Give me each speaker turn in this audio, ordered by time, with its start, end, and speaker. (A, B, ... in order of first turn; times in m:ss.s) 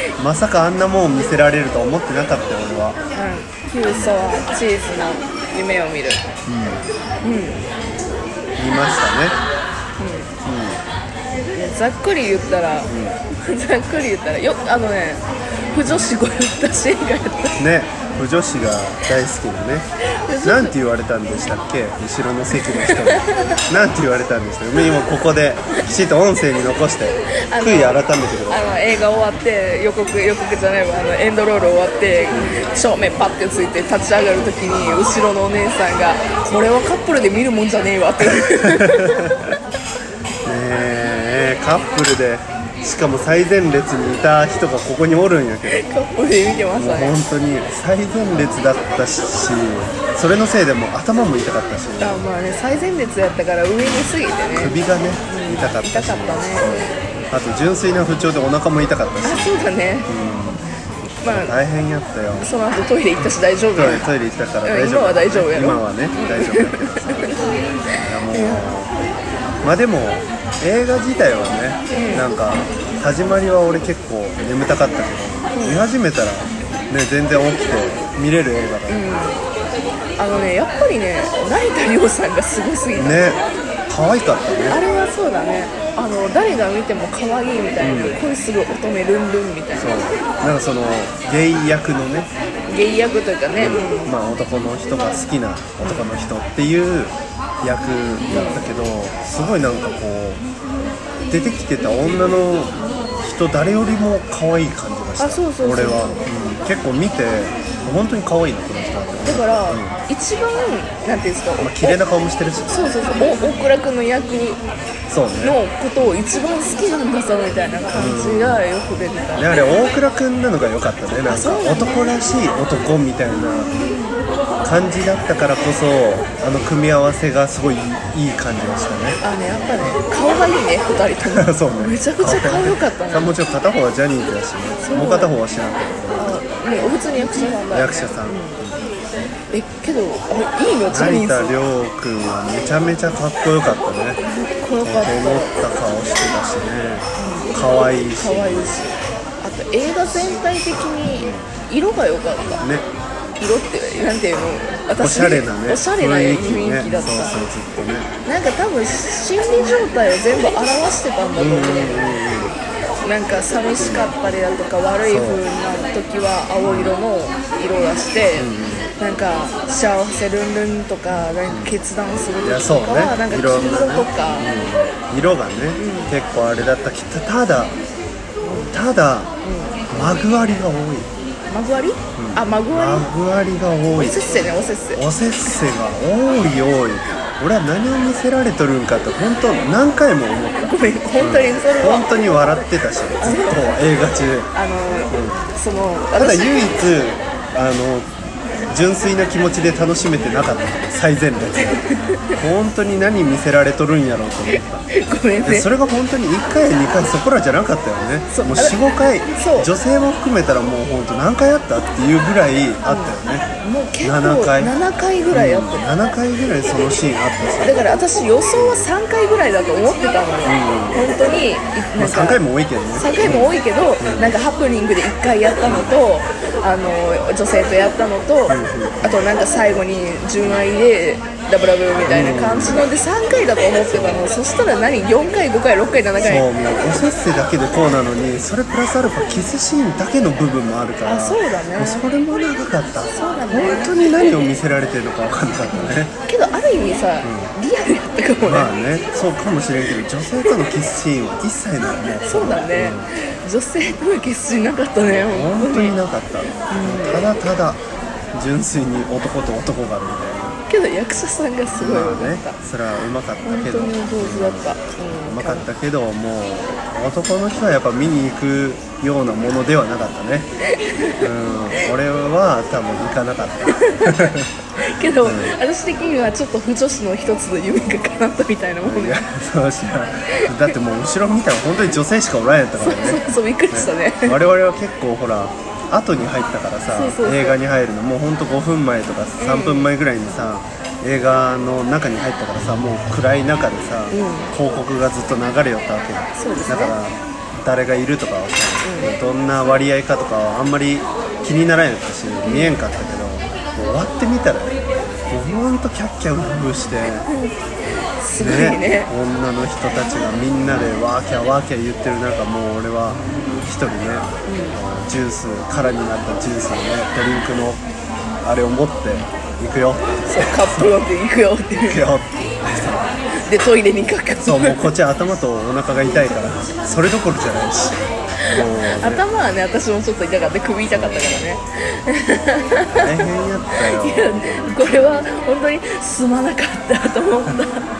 0:00.2-0:03.0 A
0:03.1-0:06.2 B
0:06.4-0:06.8 A
0:07.2-0:07.6 B
0:08.6-0:09.4 A
0:10.0-0:10.3 B
0:10.4-0:10.8 A
0:11.5-0:17.6 B
0:12.9-0:13.2 A
0:15.7-0:16.0 A
0:17.6-0:19.9 A
0:20.3-0:20.7 B
0:20.4-0:28.7 A
0:22.8-0:23.5 B
0:27.5-0:39.1 B
0:32.3-0:32.6 A
0:34.4-0:35.1 A
0:38.4-0:39.3 A
0:40.4-0:45.8 A
0:45.7-0:47.2 B
0:46.7-0:52.3 A
0:52.0-0:56.8 B
0:53.8-1:02.5 A
0:59.2-1:00.1 B
1:01.2-1:01.6 B
1:02.4-1:04.1 B
1:03.8-1:09.0 A
1:04.6-1:07.7 B
1:08.3-1:08.6 B
1:09.6-1:19.3 A
1:11.9-1:12.3 B
1:15.5-1:15.8 B
1:18.9-1:19.4 B
1:20.2-1:23.4 B
1:23.0-1:24.8 A
1:24.7-1:30.0 B
1:27.8-1:28.2 A
1:29.8-1:32.3 A
1:32.7-1:34.1 B
1:33.6-1:40.4 A
1:35.8-1:36.1 B
1:38.3-1:38.7 B
1:41.3-1:50.0 A
1:42.0-1:42.4 B
1:45.2-1:46.2 B
1:49.2-1:52.0 B
1:51.6-1:52.8 A
1:52.7-1:54.6 B
1:55.1-1:56.2 A
1:55.4-1:59.6 B
1:57.9-1:58.6 A
1:59.3-2:03.7 A
2:01.3-2:02.0 B
2:03.9-2:04.2 B
2:04.6-2:09.2 A
2:09.2-2:13.3 B
2:11.3-2:16.4 A
2:14.8-2:15.4 B
2:16.2-2:18.6 B
2:17.7-2:18.9 A
2:19.5-2:21.6 B
2:20.9-2:24.2 A
2:24.3-2:25.5 B
2:24.8-2:28.9 A
2:27.2-2:32.6 B
2:31.2-2:31.5 A
2:32.6-2:32.9 A
2:33.4-2:37.5 B
2:34.9-2:38.1 A
2:38.2-2:42.2 B
2:41.4-2:42.6 A
2:43.0-2:54.5 B
2:43.8-2:44.1 A
2:45.0-2:45.4 A
2:46.6-2:47.0 A
2:48.4-2:48.9 A
2:52.4-2:57.8 A
2:55.8-2:56.1 B
2:58.4-2:58.8 B
2:58.5-2:59.3 A
2:59.4-2:59.8 B
2:59.9-3:01.1 A
3:01.5-3:03.1 B
3:02.2-3:14.5 A
3:03.9-3:05.0 B
3:10.6-3:12.7 B
3:13.2-3:13.8 B
3:14.5-3:16.8 B
3:15.1-3:15.5 A
3:16.2-3:18.1 A
3:18.7-3:24.9 A
3:21.6-3:22.3 B
3:24.5-3:25.7 B
3:25.4-3:33.5 A
3:28.3-3:28.8 B
3:29.4-3:29.7 B
3:32.8-3:35.8 B
3:34.0-3:34.7 A
3:35.3-3:38.0 A
3:37.6-3:56.5 B
3:38.5-3:38.9 A
3:40.4-3:41.1 A
3:42.0-3:44.3 A
3:45.6-3:45.9 A
3:48.5-3:49.2 A
3:50.4-3:50.7 A
3:52.1-3:52.9 A
3:53.9-3:54.3 A
3:56.2-4:06.1 A
4:01.0-4:02.1 B
4:03.1-4:04.4 B
4:05.7-4:08.7 B
4:07.2-4:07.5 A
4:08.4-4:13.1 A
4:12.2-4:16.0 B
4:15.1-4:20.6 A
4:16.7-4:17.3 B
4:20.7-4:22.6 B
4:21.7-4:30.5 A
4:23.4-4:25.7 B
4:30.8-4:31.2 B
4:31.2-4:34.5 A
4:33.7-4:34.3 B
4:34.8-4:39.2 B
4:35.2-4:35.6 A
4:38.8-5:04.8 A
4:42.8-4:44.4 B
4:46.9-4:47.6 B
4:49.4-4:49.9 B
4:54.1-4:54.5 B
4:56.4-4:57.0 B
4:58.8-4:59.1 B
5:02.4-5:02.8 B
5:05.3-5:07.3 A
5:07.3-5:07.6 B
5:08.2-5:09.1 B
5:08.4-5:17.8 A
5:14.4-5:14.8 B
5:18.4-5:21.0 A
5:20.2-5:22.0 B
5:21.7-5:23.1 A
5:23.4-5:24.8 B
5:24.4-5:28.0 A
5:28.5-5:29.2 A
5:28.6-5:33.2 B
5:30.9-5:31.5 A
5:32.9-5:35.3 A
5:33.8-5:37.9 B